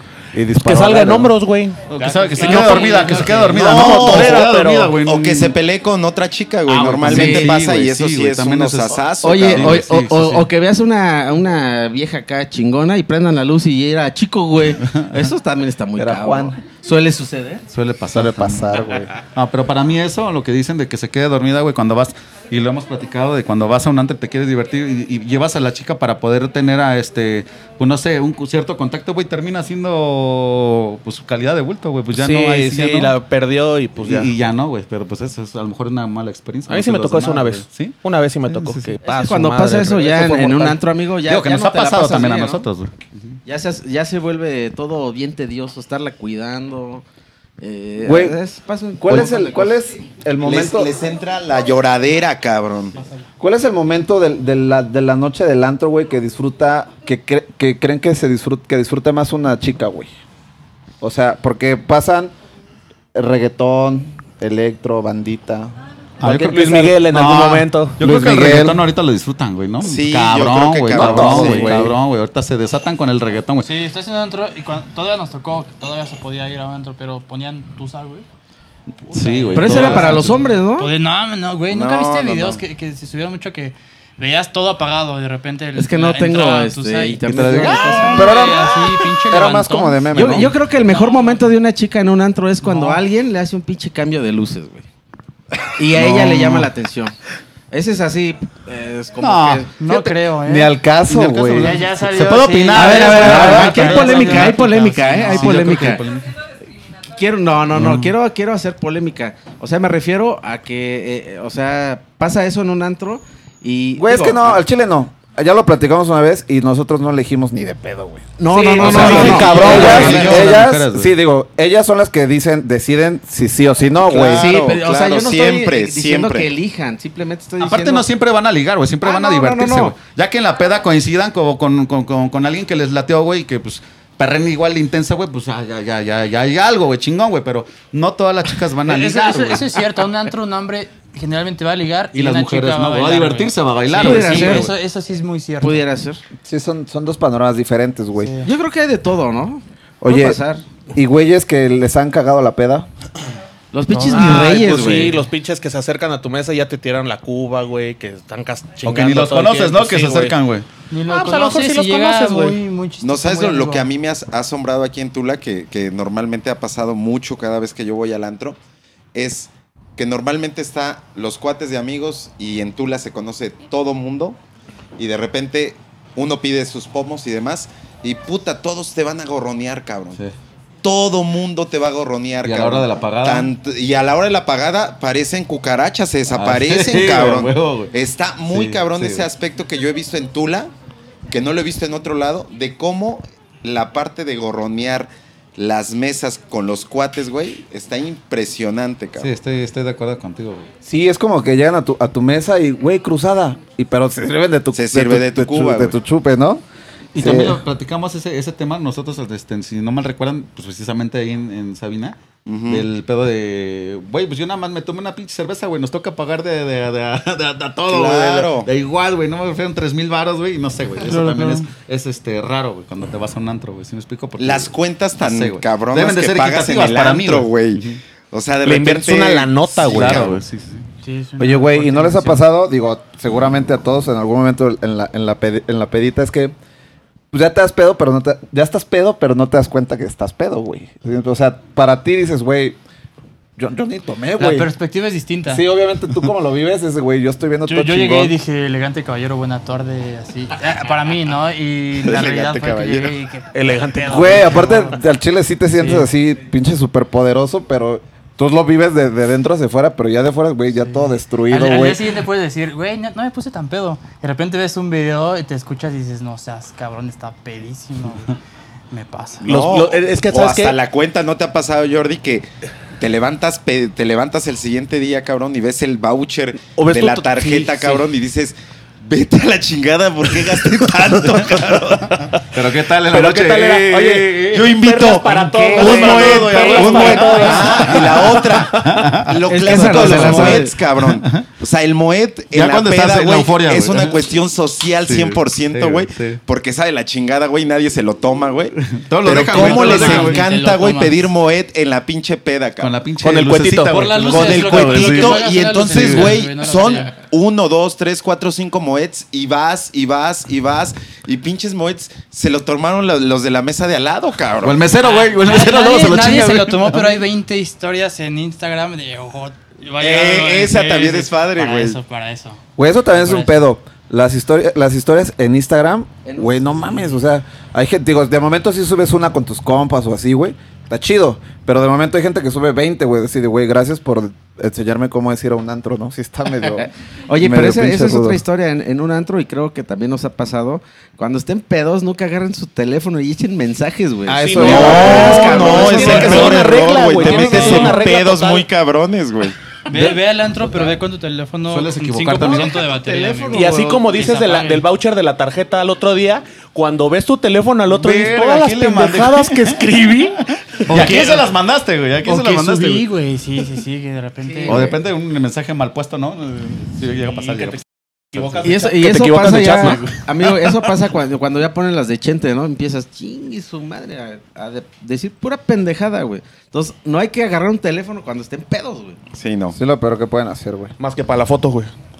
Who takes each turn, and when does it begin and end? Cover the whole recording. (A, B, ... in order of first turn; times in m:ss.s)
0:00.3-0:01.3 A
0:00.5-0:04.9 B
0:01.9-0:05.6 C
0:02.0-0:03.8 D
0:03.6-0:09.8 E
0:06.6-0:10.5 C
0:07.0-0:07.5 F
0:09.2-0:17.6 F
0:14.8-0:15.2 C
0:16.0-0:16.6 A
0:17.7-0:33.2 C
0:18.1-0:19.1 A
0:32.1-0:34.3 B
0:34.0-0:38.0 C
0:36.7-0:40.8 B
0:38.5-0:39.0 C
0:39.0-0:42.7 F
0:41.3-0:43.4 C
0:43.4-0:47.0 F
0:47.6-0:49.7 F
0:48.0-0:48.4 A
0:49.0-0:50.9 A
0:50.4-0:53.0 E
0:53.4-1:00.1 A
1:01.0-1:02.3 A
1:03.1-1:05.7 A
1:06.2-1:13.7 C
1:06.2-1:08.0 B
1:08.0-1:08.8 A
1:09.8-1:11.9 E
1:11.0-1:11.9 A
1:13.6-1:18.2 D
1:19.0-1:30.1 D
1:19.1-1:20.5 C
1:19.5-1:20.9 F
1:21.7-1:22.6 E
1:25.7-1:28.4 F
1:27.3-1:27.8 C
1:28.1-1:30.5 A
1:30.1-1:34.8 F
1:30.9-1:31.5 D
1:32.6-1:33.0 D
1:35.7-1:37.1 F
1:35.9-1:36.7 C
1:37.7-1:40.2 F
1:39.2-1:39.6 C
1:39.8-1:40.8 D
1:40.4-1:41.8 A
1:41.1-1:46.3 C
1:41.6-1:45.6 D
1:42.7-1:46.0 F
1:47.2-1:54.6 F
1:47.7-1:48.1 C
1:54.0-2:04.5 A
1:58.4-2:00.3 F
1:58.4-2:00.5 B
1:58.8-2:01.1 C
2:04.0-2:06.5 E
2:04.2-2:08.1 F
2:07.6-2:19.7 C
2:09.0-2:10.0 F
2:18.8-2:25.8 D
2:22.1-2:24.7 C
2:23.9-2:24.7 F
2:25.6-2:26.2 F
2:26.4-2:28.3 A
2:28.2-2:28.5 D
2:28.4-2:30.6 F
2:30.0-2:30.4 A
2:30.9-2:32.9 A
2:33.7-2:35.2 F
2:33.9-2:35.1 D
2:34.1-2:40.4 B
2:38.8-2:40.6 C
2:40.9-2:43.9 D
2:41.1-2:42.6 B
2:43.0-2:48.6 E
2:49.1-2:54.4 E
2:55.0-3:00.2 E
3:00.8-3:10.7 E
3:02.4-3:03.5 C
3:06.3-3:07.9 C
3:08.5-3:09.2 C
3:11.3-3:19.3 E
3:19.2-3:20.7 C
3:20.8-3:26.6 A
3:24.7-3:26.0 E
3:27.1-3:32.2 C
3:27.1-3:27.6 A
3:32.4-3:32.8 E
3:32.7-3:48.0 C
3:37.9-3:38.7 E
3:41.0-3:41.7 D
3:44.4-3:50.3 E
3:48.6-3:50.4 B
3:49.8-3:50.8 C
3:51.0-3:52.4 D
3:51.4-3:56.5 A
3:57.3-4:02.8 A
4:03.6-4:04.7 A
4:04.4-4:05.6 D
4:05.4-4:08.3 A
4:07.6-4:15.0 D
4:12.0-4:13.2 E
4:13.5-4:14.8 B
4:14.1-4:22.0 A
4:15.7-4:16.1 D
4:20.8-4:28.3 D
4:28.9-4:29.4 D
4:29.4-4:30.8 B
4:29.4-4:42.2 E
4:36.7-4:38.1 B
4:42.5-4:44.6 C
4:43.1-4:48.5 B
4:44.5-5:02.9 E
4:45.3-4:51.4 C
4:49.5-4:50.7 F
4:52.5-4:54.3 C
4:55.0-4:56.4 C
4:58.9-5:00.4 C
4:59.4-5:01.2 D
5:02.8-5:05.3 C
5:03.2-5:05.4 B
5:03.9-5:07.1 D
5:04.3-5:14.8 E
5:05.8-5:06.4 C
5:14.6-5:17.2 C
5:15.0-5:22.6 D
5:20.0-5:22.0 E
5:22.8-5:38.4 A
5:23.1-5:23.6 D
5:26.2-5:27.0 F
5:37.3-5:46.7 F
5:44.2-5:45.8 A
5:44.5-5:48.6 B
5:44.6-5:49.6 E
5:45.9-5:46.6 D
5:47.2-5:48.0 D
5:49.9-5:54.8 D
5:49.9-5:50.9 C
5:51.7-5:52.8 C
5:52.8-5:54.2 F
5:53.5-6:01.4 B
5:57.9-6:00.2 C
6:00.9-6:03.1 C
6:00.9-6:01.2 D
6:02.2-6:04.9 D
6:04.4-6:04.9 F
6:04.7-6:07.8 C
6:08.3-6:10.9 B
6:08.3-6:08.8 C
6:08.6-6:19.2 F
6:19.3-6:19.8 E
6:19.7-6:20.9 A
6:21.0-6:21.9 B